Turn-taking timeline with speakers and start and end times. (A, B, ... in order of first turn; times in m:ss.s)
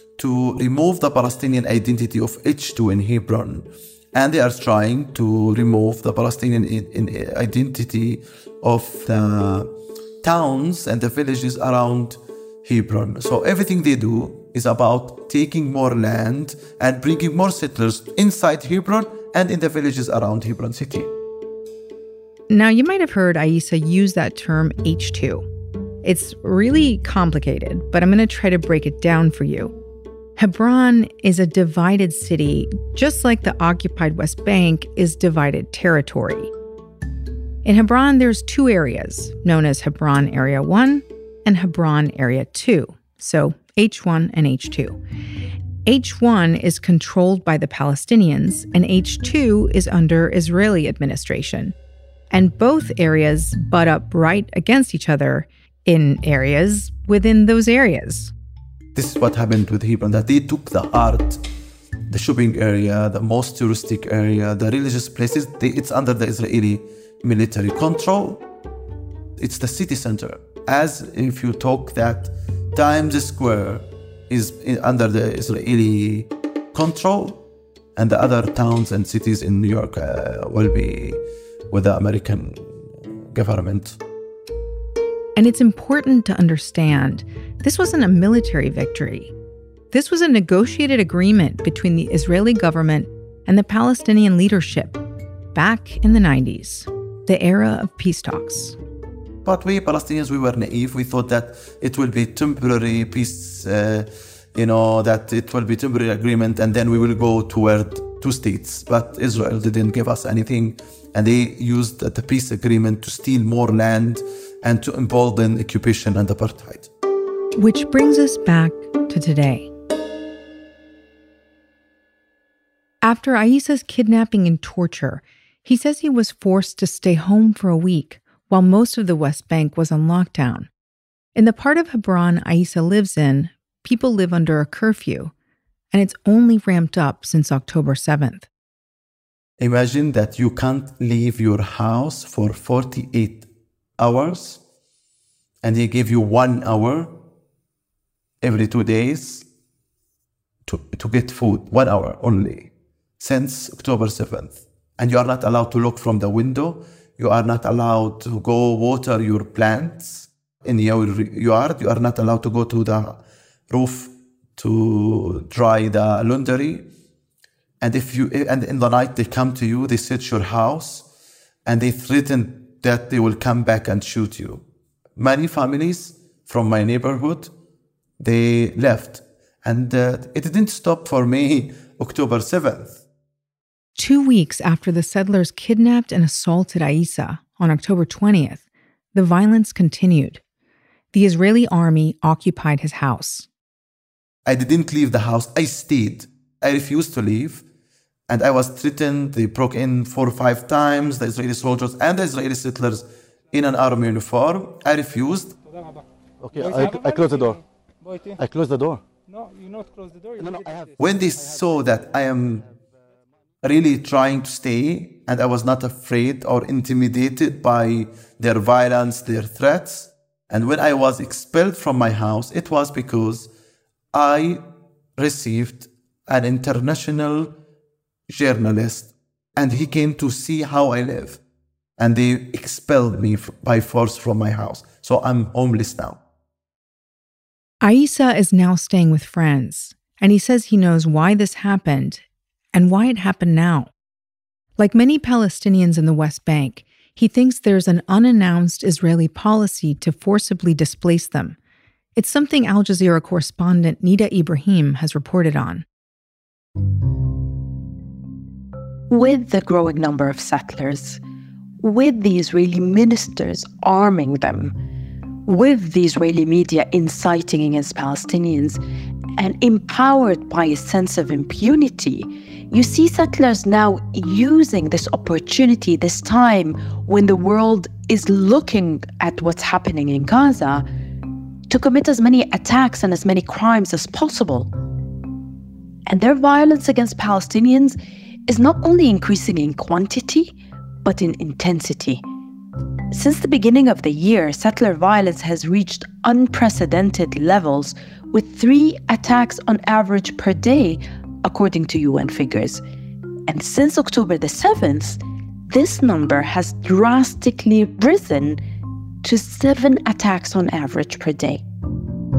0:00.2-0:09.7 A
0:10.2-0:21.1 A
0:22.5-0:25.5 B
0:26.0-0:29.7 B
0:30.4-0:36.5 B
0:37.6-0:45.0 B
0:45.9-0:51.8 B
0:52.3-0:58.3 B
0:59.0-1:01.4 A
1:02.1-1:08.4 A
1:09.4-1:17.4 A
1:18.0-1:24.0 A
1:25.4-1:29.3 B
1:29.9-1:35.0 B
1:35.5-1:38.8 B
1:39.4-1:56.9 A
1:57.6-1:59.7 B
2:03.0-2:10.7 B
2:11.4-2:15.3 B
2:15.9-2:18.5 B
2:19.6-2:24.6 A
2:25.6-2:27.2 A
2:28.4-2:29.5 A
2:30.7-2:46.9 A
2:47.8-2:51.1 A
2:51.7-2:54.6 A
2:55.2-2:57.5 A
2:58.2-3:03.0 A
3:04.0-3:10.4 B
3:11.1-3:13.5 B
3:14.5-3:17.6 A
3:18.3-3:25.6 A
3:26.4-3:27.6 C
3:28.4-3:29.0 C
3:30.4-3:30.9 C
3:31.0-3:32.7 A
3:33.6-3:43.5 A
3:44.1-3:44.6 A
3:45.2-3:47.6 A
3:48.3-3:51.4 A
3:52.0-3:56.2 A
3:57.8-4:02.2 B
4:02.7-4:03.9 B
4:04.8-4:11.6 B
4:12.2-4:15.8 B
4:19.1-4:21.2 D
4:21.8-4:24.8 D
4:25.4-4:28.8 D
4:29.4-4:40.8 D
4:41.7-4:44.7 D
4:46.1-4:52.2 D
4:53.1-5:02.8 D
5:03.5-5:08.6 D
5:09.2-5:11.6 D